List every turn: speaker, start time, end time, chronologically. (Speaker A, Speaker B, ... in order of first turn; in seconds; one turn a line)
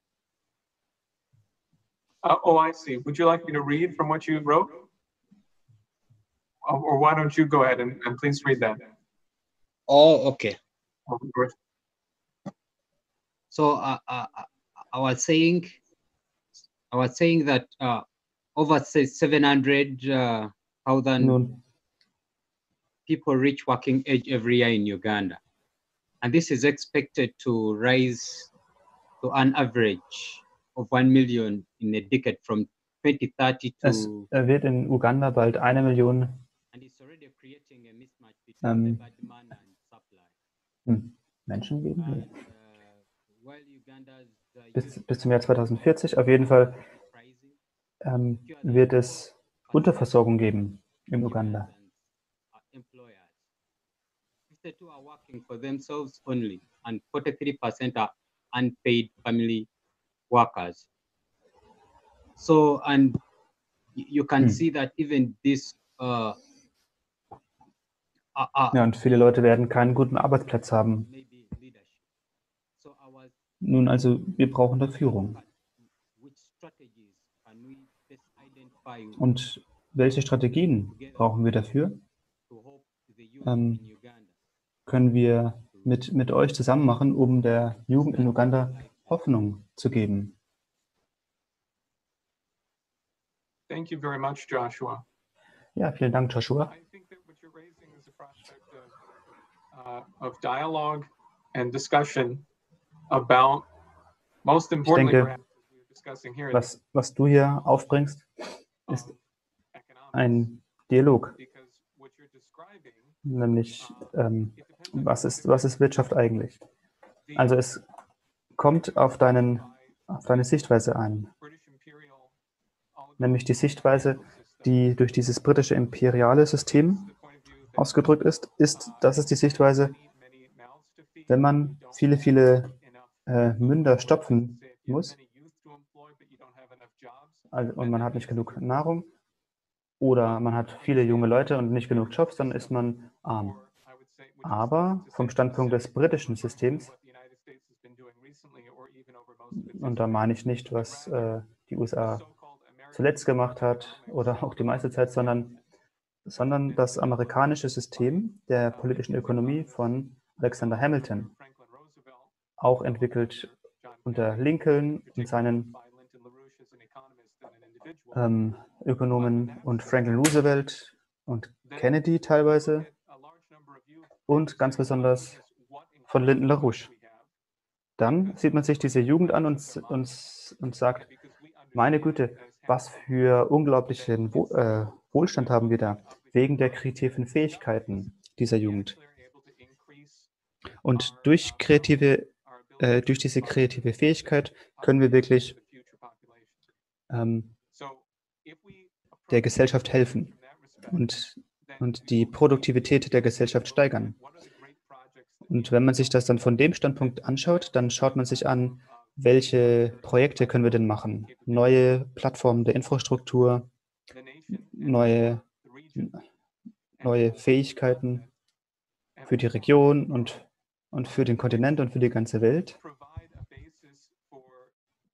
Speaker A: 2.2-4.8
Speaker A: 6.6-8.9
Speaker B: 9.9-10.6
Speaker A: 11.1-11.5
Speaker B: 13.5-15.8
Speaker B: 16.9-21.4
Speaker C: 21.2-21.5
Speaker B: 23.1-25.4
Speaker B: 26.2-28.5
Speaker B: 29.2-34.3
Speaker C: 33.8-36.4
Speaker B: 36.7-40.3
Speaker C: 38.6-39.0
Speaker C: 40.9-42.3
Speaker B: 41.5-47.6
Speaker C: 44.7-46.8
Speaker C: 48.0-51.7
Speaker B: 48.4-52.0
Speaker B: 52.5-53.4
Speaker B: 54.5-59.7
Speaker B: 60.3-60.9
Speaker B: 62.4-63.2
Speaker B: 63.9-66.4
Speaker B: 68.3-68.8
Speaker C: 68.7-71.1
Speaker B: 71.0-72.0
Speaker B: 72.8-73.3
Speaker C: 73.6-75.4
Speaker B: 74.8-79.3
Speaker C: 79.2-82.0
Speaker B: 80.9-81.5
Speaker B: 82.5-84.3
Speaker C: 83.4-83.8
Speaker C: 84.9-90.3
Speaker B: 85.6-86.2
Speaker B: 87.9-89.2
Speaker A: 93.7-95.0
Speaker C: 95.8-96.7
Speaker A: 96.6-99.0
Speaker A: 99.7-102.4
Speaker A: 103.1-103.7
Speaker A: 104.4-106.7
Speaker C: 104.8-105.3
Speaker C: 106.5-108.3
Speaker A: 108.9-109.2
Speaker A: 109.7-110.5
Speaker C: 110.1-111.3
Speaker A: 111.3-113.2
Speaker C: 113.2-116.6
Speaker A: 113.8-115.8
Speaker A: 117.3-117.6
Speaker C: 117.3-117.8
Speaker C: 118.5-121.3
Speaker A: 118.7-120.5
Speaker A: 121.4-122.3
Speaker A: 122.9-124.9
Speaker C: 123.2-127.1
Speaker A: 126.9-138.6
Speaker C: 127.8-129.9
Speaker C: 131.3-132.7
Speaker C: 133.3-135.2
Speaker C: 137.5-139.1
Speaker C: 140.0-143.6
Speaker A: 140.2-151.4
Speaker C: 144.4-146.9
Speaker C: 149.6-152.2
Speaker A: 152.0-155.6
Speaker C: 152.9-155.6
Speaker C: 156.2-161.3
Speaker A: 156.4-168.4
Speaker C: 162.6-163.5
Speaker C: 164.0-165.7
Speaker C: 168.1-172.9
Speaker A: 169.1-170.4
Speaker A: 171.6-177.3
Speaker C: 174.3-175.4
Speaker C: 176.1-176.9
Speaker C: 178.0-181.1
Speaker A: 178.0-183.3
Speaker C: 181.7-188.9
Speaker A: 183.8-190.3
Speaker C: 190.8-195.6
Speaker A: 190.9-196.7
Speaker C: 197.1-197.5
Speaker A: 197.7-212.0
Speaker C: 199.3-200.3
Speaker C: 200.8-204.2
Speaker C: 205.5-213.7
Speaker A: 214.1-216.2
Speaker C: 214.7-215.4
Speaker A: 217.0-218.3
Speaker C: 217.0-218.2
Speaker A: 219.2-220.4
Speaker C: 219.2-222.8
Speaker A: 222.7-224.7